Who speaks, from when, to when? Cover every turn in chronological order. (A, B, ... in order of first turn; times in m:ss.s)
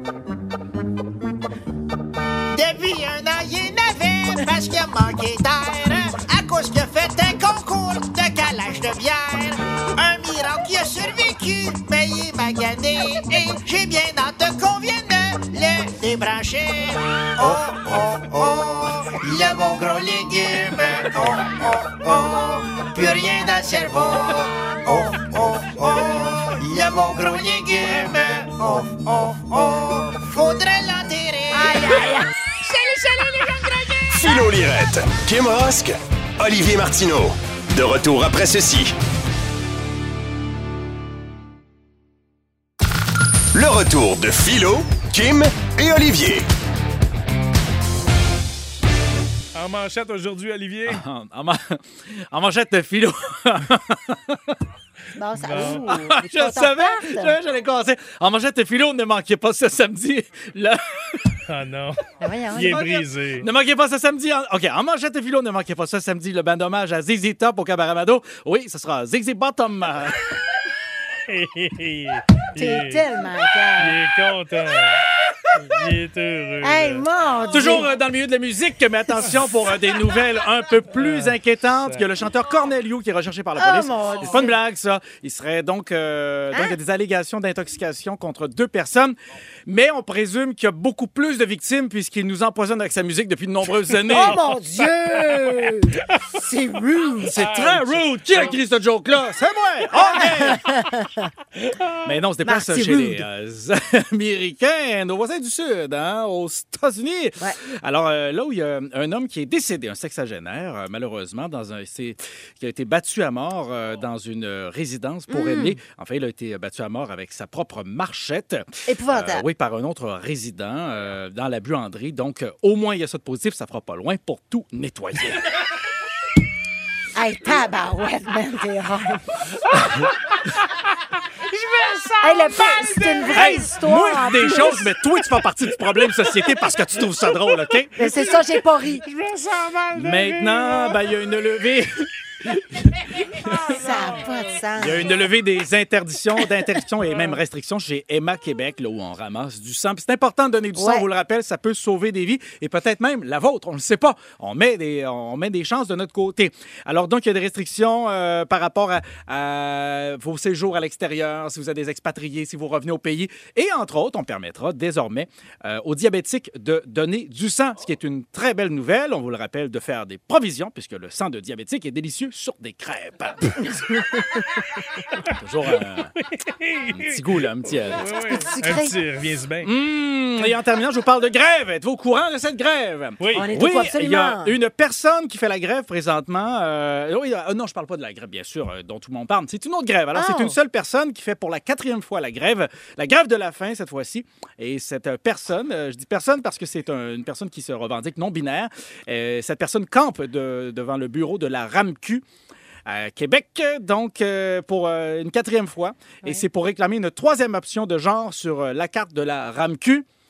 0:02.5-0:34.4 A
0:31.5-0:32.3 B
0:34.1-0:39.0 C
0:43.5-0:46.5 C
0:49.5-0:51.0 D
0:50.9-0:54.6 E
0:55.1-0:57.4 B
0:55.4-0:56.0 D
0:55.6-1:01.4 E
1:01.5-1:02.0 D
1:02.2-1:03.0 B
1:02.5-1:03.5 D
1:03.4-1:10.2 E
1:11.3-1:13.0 D
1:12.6-1:14.0 B
1:13.8-1:15.0 D
1:15.7-1:17.0 D
1:16.6-1:17.9 B
1:17.5-1:34.4 E
1:20.9-1:22.0 D
1:23.6-1:24.5 B
1:34.1-1:37.3 B
1:37.2-1:40.6 E
1:37.3-1:38.6 D
1:40.4-1:41.3 B
1:41.6-1:42.0 D
1:42.0-2:05.5 E
1:42.4-1:43.2 B
1:55.3-1:55.8 B
1:58.9-1:59.4 B
2:07.1-2:09.4 B
2:11.5-2:13.6 D
2:12.2-2:14.9 B
2:13.3-2:17.9 E
2:17.5-2:21.0 D
2:18.0-2:19.0 B
2:19.9-2:23.7 E
2:23.6-2:24.0 D
2:23.7-2:25.1 B
2:24.8-2:53.8 E
2:30.7-2:31.1 B
2:55.3-2:56.1 E
2:56.2-2:57.2 D
2:56.9-2:58.1 E
2:57.8-2:59.7 D
2:58.2-2:58.9 B
2:59.6-3:22.2 E
3:03.2-3:03.5 D
3:03.3-3:04.5 B
3:10.1-3:10.6 B
3:22.8-3:30.0 E